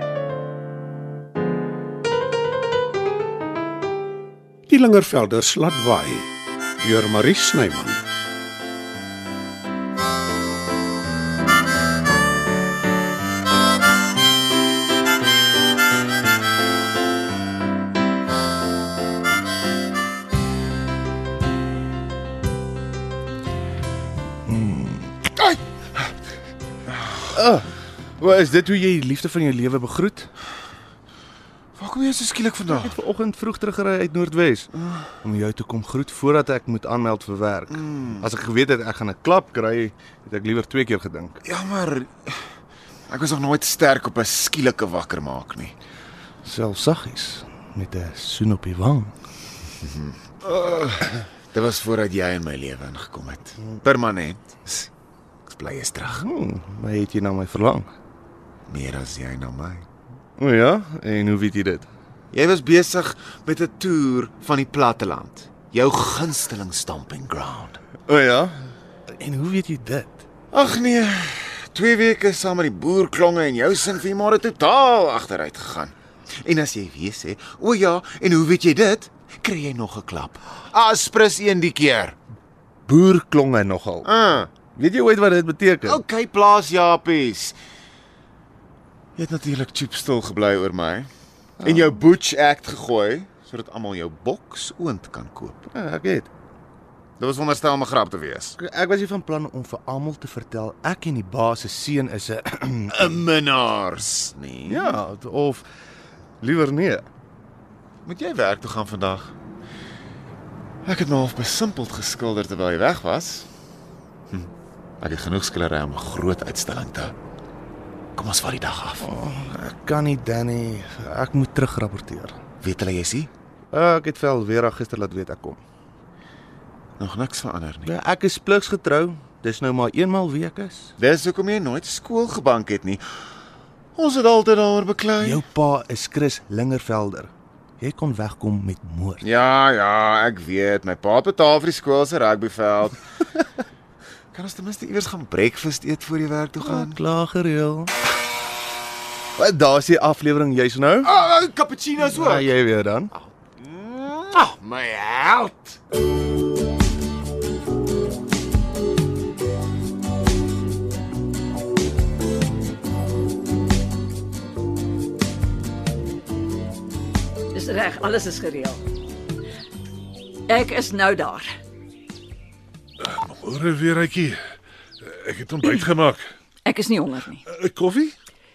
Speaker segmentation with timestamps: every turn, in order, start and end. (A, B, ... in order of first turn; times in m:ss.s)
0:04.7-0:08.0 A
0:24.5-0:25.2 B
0:26.9-0:27.3 C
0:27.3-0:27.7 B
0:28.2-0:30.3 B
0:31.8-0:33.0 C
0:32.7-0:34.7 B
0:34.8-0:35.1 C
0:35.2-0:41.4 B
0:37.7-0:38.3 C
0:41.4-0:42.4 C
0:43.1-0:45.8 C
0:46.4-0:49.1 B
0:49.8-0:54.9 C
0:55.5-0:56.2 C
0:56.1-0:57.9 B
0:58.7-0:59.9 C
1:00.4-1:01.9 B
1:02.3-1:07.8 C
1:08.1-1:10.2 B
1:10.5-1:22.2 C
1:22.9-1:24.1 B
1:24.0-1:24.6 C
1:24.6-1:26.0 B
1:25.8-1:27.6 C
1:29.2-1:31.1 C
1:31.6-1:32.0 B
1:31.6-1:35.6 C
1:35.7-1:36.3 B
1:37.2-1:38.6 C
1:38.6-1:43.2 B
1:43.0-1:45.0 C
1:44.7-1:45.6 B
1:46.4-1:47.1 B
1:48.0-1:49.4 C
1:50.8-1:53.5 C
1:55.0-1:57.2 C
1:58.2-1:59.1 C
1:59.0-2:02.4 B
2:02.6-2:03.3 C
2:03.7-2:05.6 B
2:07.0-2:07.9 C
2:07.8-2:10.9 B
2:11.0-2:13.0 C
2:14.0-2:15.4 C
2:15.2-2:19.3 B
2:19.2-2:23.0 C
2:24.3-2:27.0 C
2:26.6-2:27.9 B
2:29.4-2:31.1 B
2:31.0-2:32.5 C
2:32.1-2:33.1 B
2:33.2-2:35.8 C
2:47.5-2:48.8 D
2:50.5-2:51.5 D
2:53.0-2:54.4 E
2:55.0-2:56.2 E
2:56.6-2:57.4 D
2:57.5-2:58.1 E